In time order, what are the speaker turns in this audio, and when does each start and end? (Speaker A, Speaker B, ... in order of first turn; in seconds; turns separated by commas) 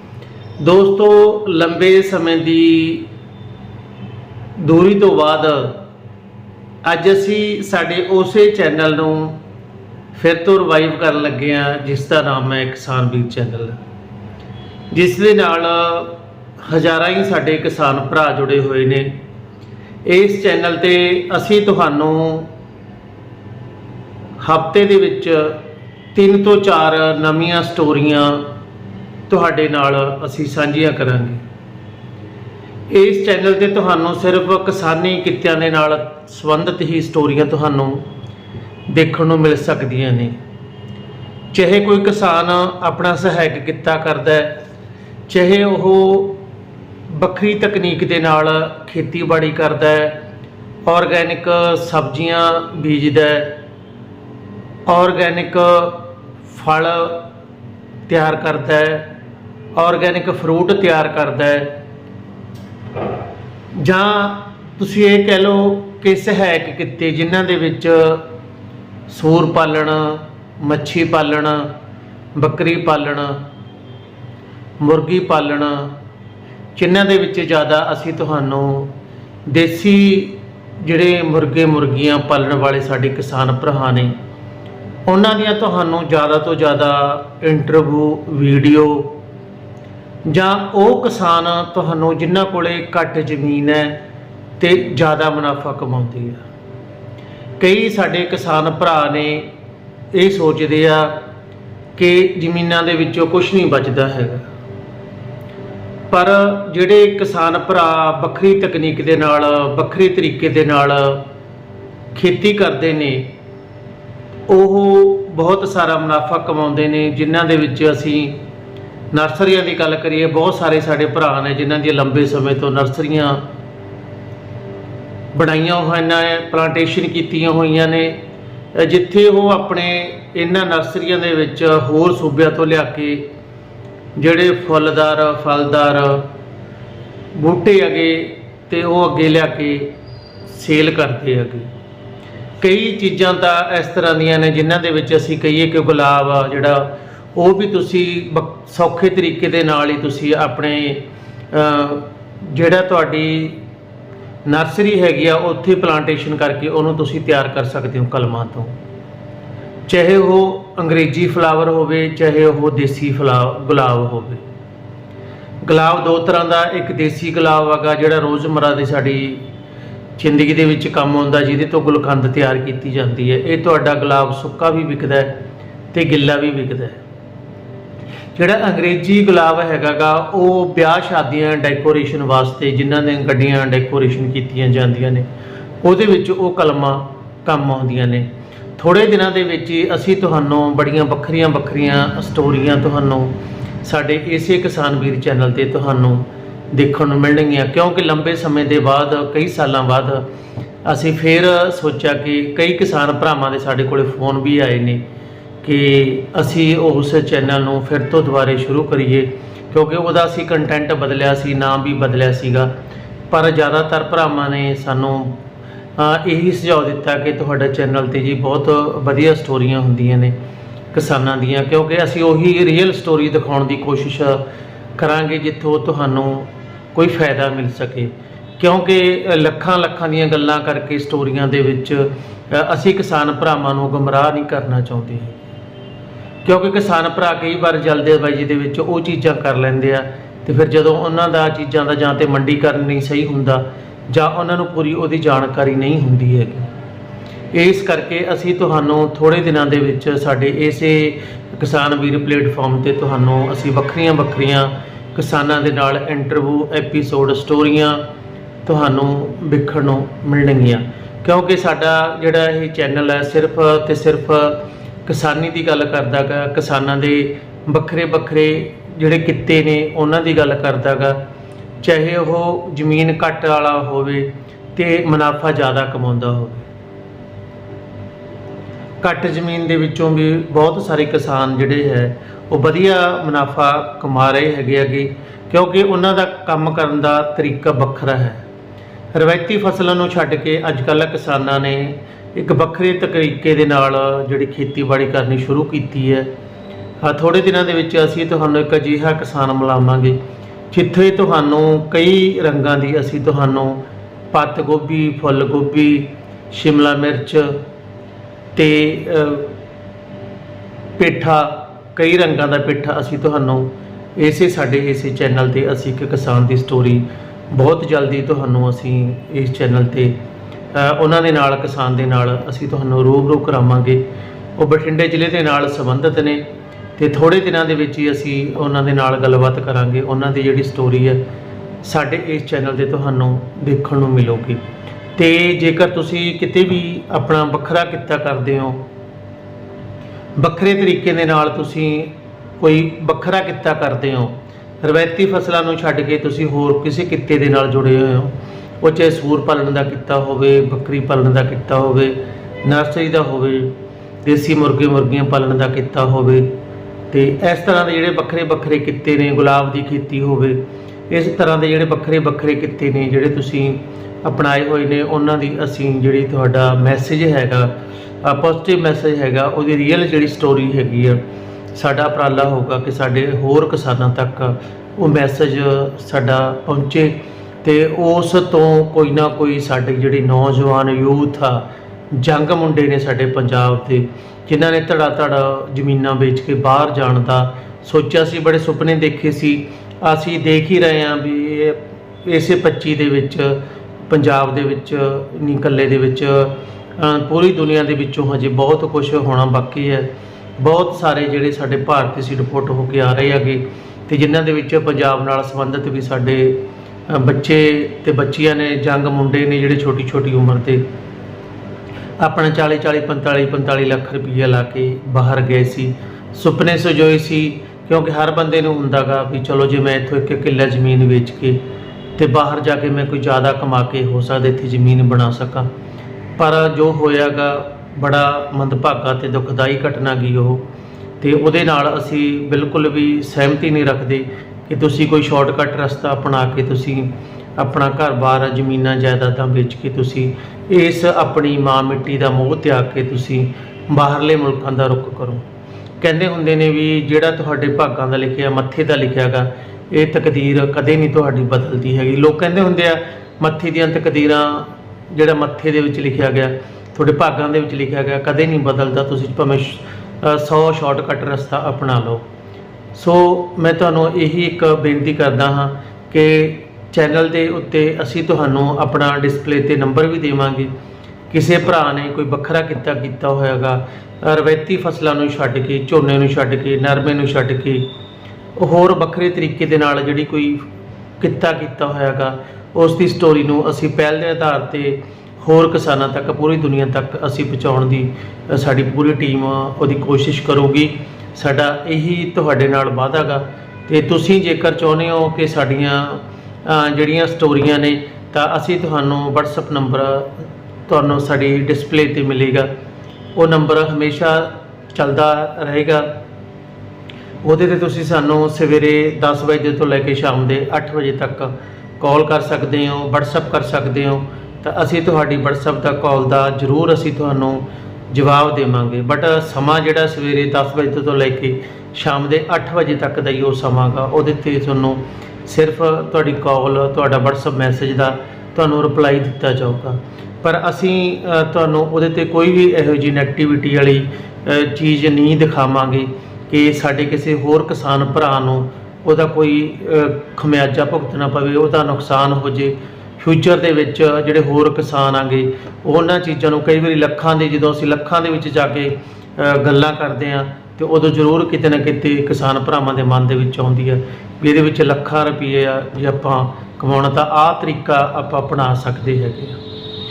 Speaker A: 0.6-3.1, Speaker A: 4.6-5.8, Speaker A: 6.8-9.3, Speaker A: 10.1-13.8, Speaker A: 14.9-19.1, Speaker A: 20.1-22.5, Speaker A: 24.4-25.6, Speaker A: 26.1-28.4, Speaker A: 29.3-31.4, Speaker A: 32.9-38.0, Speaker A: 38.9-40.4, Speaker A: 41.5-44.5, Speaker A: 45.3-46.4, Speaker A: 47.1-50.1, Speaker A: 50.9-53.5, Speaker A: 54.9-57.2, Speaker A: 58.1-59.1, Speaker A: 59.7-61.7, Speaker A: 63.7-68.2, Speaker A: 69.1-71.7, Speaker A: 72.3-73.4, Speaker A: 74.8-75.9, Speaker A: 76.8-78.9, Speaker A: 79.5-84.1, Speaker A: 85.1-89.1, Speaker A: 90.2-94.0, Speaker A: 94.6-96.4, Speaker A: 97.6-99.5, Speaker A: 100.1-101.2, Speaker A: 102.0-104.5, Speaker A: 106.1-111.2, Speaker A: 112.1-113.3, Speaker A: 114.5-118.4, Speaker A: 119.1-123.4, Speaker A: 125.3-128.2, Speaker A: 128.7-133.2, Speaker A: 134.2-136.3, Speaker A: 137.3-139.9, Speaker A: 140.5-141.7, Speaker A: 142.6-153.6, Speaker A: 154.4-158.7, Speaker A: 159.9-164.4, Speaker A: 165.6-169.4, Speaker A: 170.2-175.4, Speaker A: 175.9-177.0, Speaker A: 178.3-185.2, Speaker A: 185.8-200.2, Speaker A: 200.8-205.0, Speaker A: 205.6-212.7, Speaker A: 213.3-215.3, Speaker A: 216.0-220.3, Speaker A: 220.9-224.4, Speaker A: 225.0-235.4, Speaker A: 236.4-246.7, Speaker A: 247.5-258.0, Speaker A: 258.6-271.2, Speaker A: 271.8-276.7, Speaker A: 279.0-288.4, Speaker A: 289.1-296.3, Speaker A: 297.0-300.2, Speaker A: 300.7-307.6, Speaker A: 308.5-309.5, Speaker A: 311.0-320.1, Speaker A: 320.7-324.0, Speaker A: 324.6-326.4, Speaker A: 327.0-331.2, Speaker A: 331.8-334.6, Speaker A: 335.1-338.8, Speaker A: 340.4-353.7, Speaker A: 354.2-356.5, Speaker A: 357.1-367.7, Speaker A: 368.2-371.2, Speaker A: 371.7-406.6, Speaker A: 407.1-410.8, Speaker A: 412.2-421.6, Speaker A: 422.2-425.7, Speaker A: 426.4-430.6, Speaker A: 431.2-445.4, Speaker A: 446.0-462.2, Speaker A: 462.9-470.7, Speaker A: 471.3-477.9, Speaker A: 478.6-480.6, Speaker A: 481.2-502.7, Speaker A: 503.3-506.1, Speaker A: 507.4-559.6